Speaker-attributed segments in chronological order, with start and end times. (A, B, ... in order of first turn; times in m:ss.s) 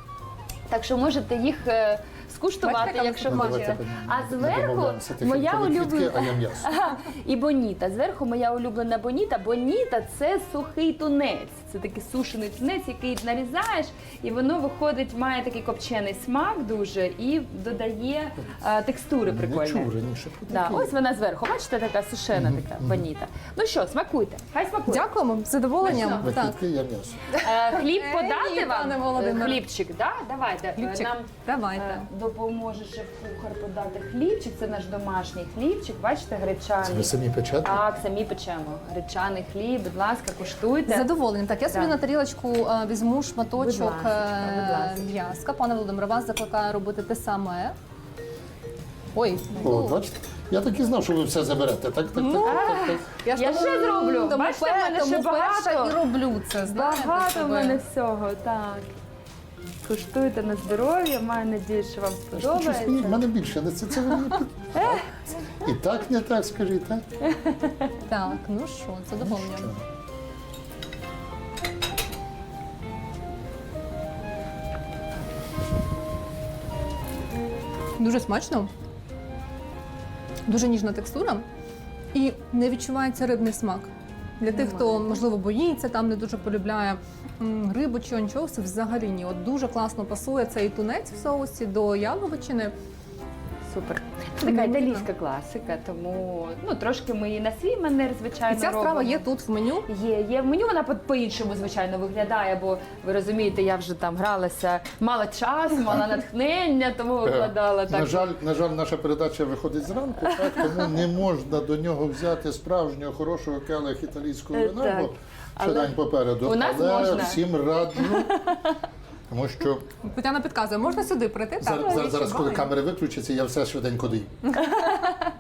0:00.7-0:19.9 A
0:02.6-0:03.8 B
0:03.2-0:06.7 C
0:19.3-0:20.9 C
0:20.5-0:25.1 A
0:22.4-0:23.0 C
0:24.9-0:26.6 B
0:25.8-0:26.3 A
0:25.8-0:27.3 C
0:27.3-0:29.6 B
0:27.4-0:41.1 A
0:30.8-0:32.1 B
0:36.8-0:37.8 C
0:40.9-0:47.7 B
0:43.6-0:45.1 A
0:49.2-0:50.0 B
0:49.6-0:53.0 C
0:52.2-0:57.8 B
0:52.4-0:56.0 A
0:56.6-0:58.9 A
0:59.8-1:03.2 A
1:02.3-1:07.0 C
1:04.8-1:05.0 A
1:07.2-1:07.9 A
1:08.1-1:09.7 B
1:09.2-1:09.8 C
1:18.0-1:18.7 B
1:20.5-1:21.4 B
1:22.1-1:32.7 B
1:24.5-1:25.1 A
1:33.7-1:39.2 A
1:34.4-1:35.1 B
1:38.5-1:39.9 B
1:39.9-1:48.3 A
1:47.2-1:58.4 C
1:54.5-1:57.4 A
1:58.0-1:58.8 A
1:59.3-1:59.9 C
2:00.0-2:02.6 B
2:01.6-2:04.6 C
2:02.0-2:02.5 A
2:04.5-2:05.2 B